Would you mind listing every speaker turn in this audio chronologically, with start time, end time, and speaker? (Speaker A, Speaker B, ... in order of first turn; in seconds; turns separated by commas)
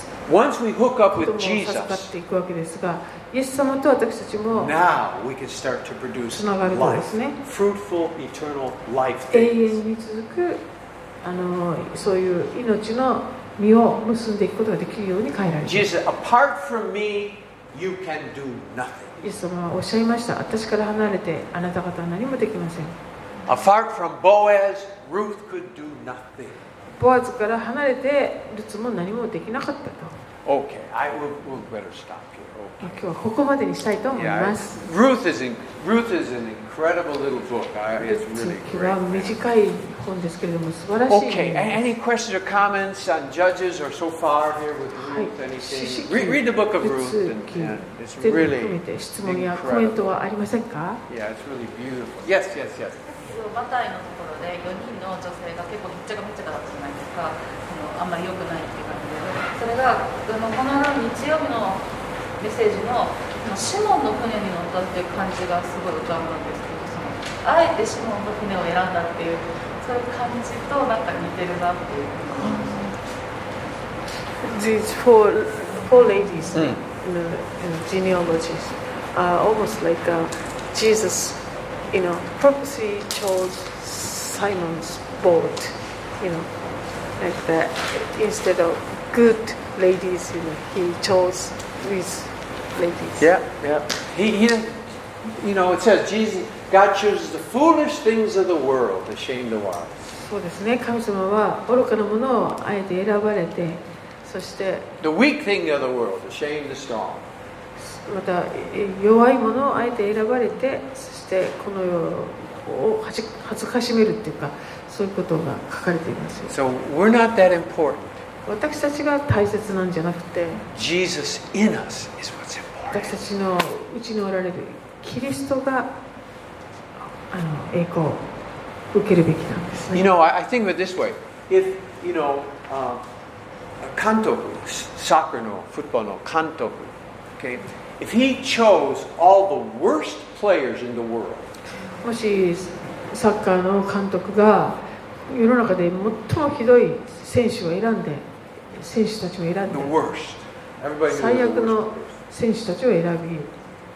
Speaker A: 0.2-2.1, Speaker B: 1.1-4.7, Speaker A: 4.5-9.8, Speaker B: 6.3-7.4, Speaker B: 9.3-10.6, Speaker B: 11.2-15.9, Speaker A: 15.6-19.2, Speaker B: 19.2-22.9, Speaker A: 23.5-26.6, Speaker B: 26.9-30.1, Speaker A: 30.4-33.0, Speaker B: 32.8-34.9, Speaker A: 34.1-39.4, Speaker B: 38.0-41.8, Speaker A: 41.1-50.1, Speaker B: 45.0-51.0, Speaker A: 51.1-53.0, Speaker C: 53.1-61.9, Speaker C: 62.4-72.8, Speaker B: 72.4-72.9, Speaker B: 74.4-86.5, Speaker A: 76.5-76.8, Speaker B: 87.2-93.3, Speaker A: 93.2-100.0, Speaker B: 100.1-104.9, Speaker A: 105.0-107.2, Speaker B: 107.8-116.5, Speaker A: 116.5-118.2, Speaker B: 118.5-120.6, Speaker A: 120.7-123.1, Speaker B: 122.9-125.9, Speaker B: 127.0-128.3, Speaker B: 128.9-130.0, Speaker A: 129.9-133.0, Speaker A: 133.8-141.5, Speaker B: 142.0-149.9, Speaker A: 149.7-152.2, Speaker B: 151.1-153.5